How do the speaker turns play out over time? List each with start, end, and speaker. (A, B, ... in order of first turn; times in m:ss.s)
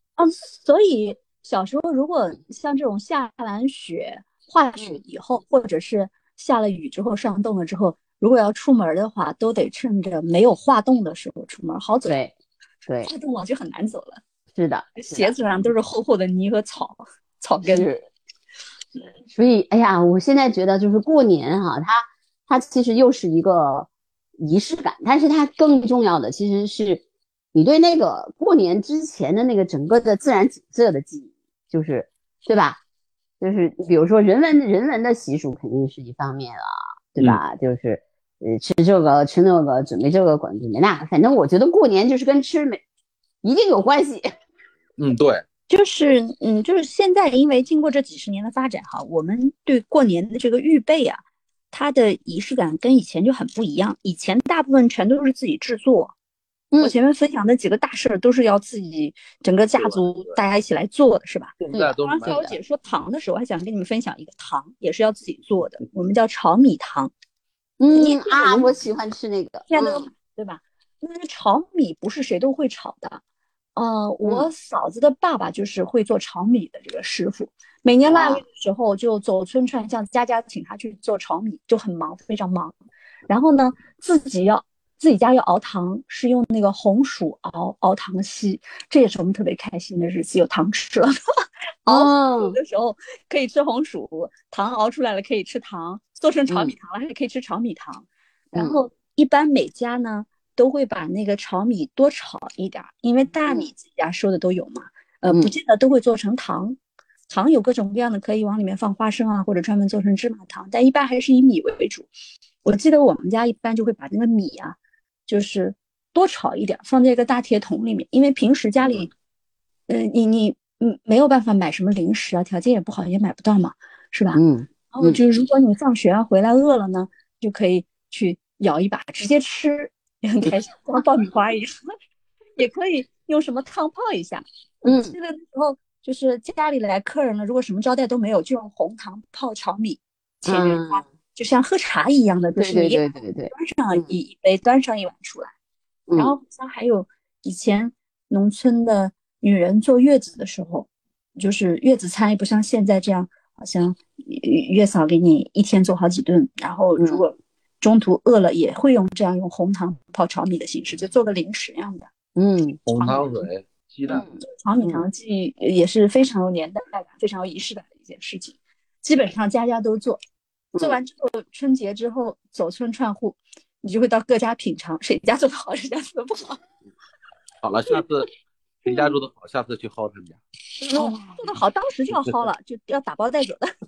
0:00.2-0:12.2 A
0:12.0-0:12.3 B
0:12.8-0:13.1 B
0:13.0-0:14.2 A
0:14.5-0:15.3 B
0:15.0-0:17.9 A
0:17.6-0:18.1 B
0:19.3-0:23.9 B
0:24.4-0:32.8 B
0:33.4-0:42.8 B
0:43.4-0:44.3 B
0:45.0-0:45.4 C
0:45.7-0:51.2 A
0:51.7-0:56.1 A
0:56.8-1:07.1 A
0:59.8-1:00.3 C
1:01.6-1:02.6 C
1:07.8-1:10.1 B
1:07.9-1:08.7 A
1:09.7-1:13.2 A
1:13.8-1:22.7 A
1:14.2-1:14.5 B
1:18.0-1:18.4 B
1:23.3-1:31.1 A
1:31.8-1:46.8 A
1:31.9-1:32.6 B
1:36.5-1:36.7 B
1:38.5-1:38.8 B
1:45.3-1:45.5 B
1:47.3-1:52.1 A
1:52.6-1:59.1 A
1:59.9-2:04.4 A
2:04.3-2:05.2 B
2:04.9-2:11.9 A
2:12.6-2:25.5 A
2:14.8-2:15.1 B
2:20.4-2:21.0 B
2:22.6-2:24.1 B
2:26.1-2:26.3 B
2:26.2-2:42.1 A
2:37.0-2:37.2 B
2:42.4-2:42.8 B
2:42.8-2:44.3 C
2:42.9-2:43.5 A
2:44.1-2:50.2 A
2:44.1-2:45.0 B
2:50.8-2:56.6 A
2:57.6-2:58.3 C
2:58.8-3:00.4 C
3:00.8-3:03.7 A
3:00.9-3:01.4 B